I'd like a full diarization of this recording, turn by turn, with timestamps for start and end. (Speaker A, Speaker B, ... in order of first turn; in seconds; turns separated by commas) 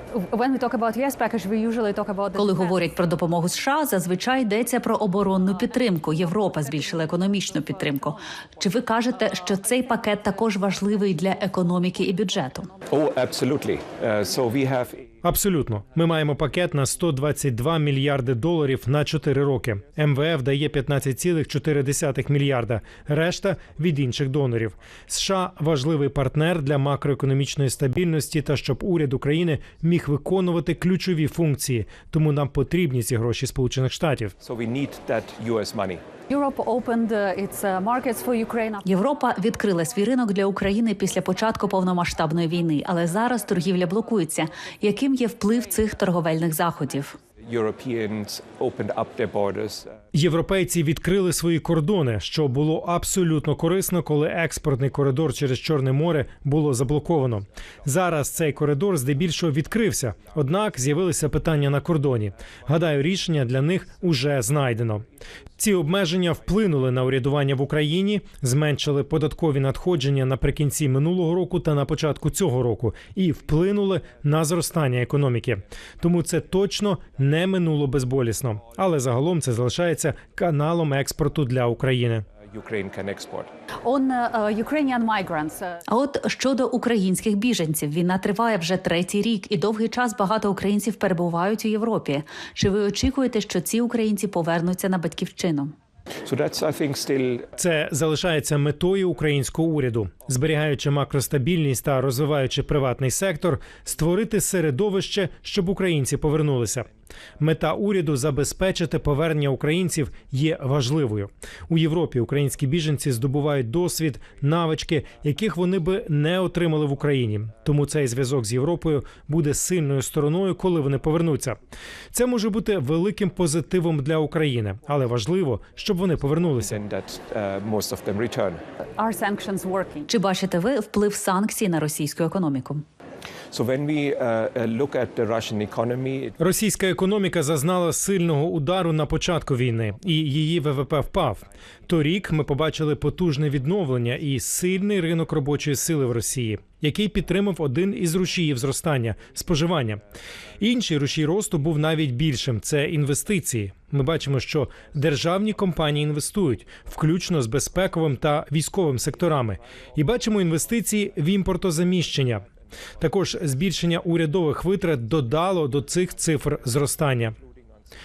Speaker A: 0.2-2.7, Speaker B: 2.4-12.7, Speaker C: 12.9-15.0, Speaker D: 15.2-34.3, Speaker C: 34.4-36.0, Speaker A: 36.3-38.8, Speaker B: 38.9-47.2, Speaker C: 47.5-49.9, Speaker D: 50.1-65.1, Speaker D: 65.6-82.3, Speaker C: 82.5-83.5, Speaker A: 83.8-85.8, Speaker B: 85.9-95.7, Speaker C: 96.2-97.5, Speaker D: 97.6-106.9, Speaker D: 107.4-121.6, Speaker D: 122.1-126.8, Speaker C: 126.6-128.6, Speaker A: 129.0-130.1, Speaker B: 130.1-132.8, Speaker C: 133.5-136.3, Speaker D: 136.4-150.0, Speaker D: 150.6-162.5, Speaker D: 163.0-167.4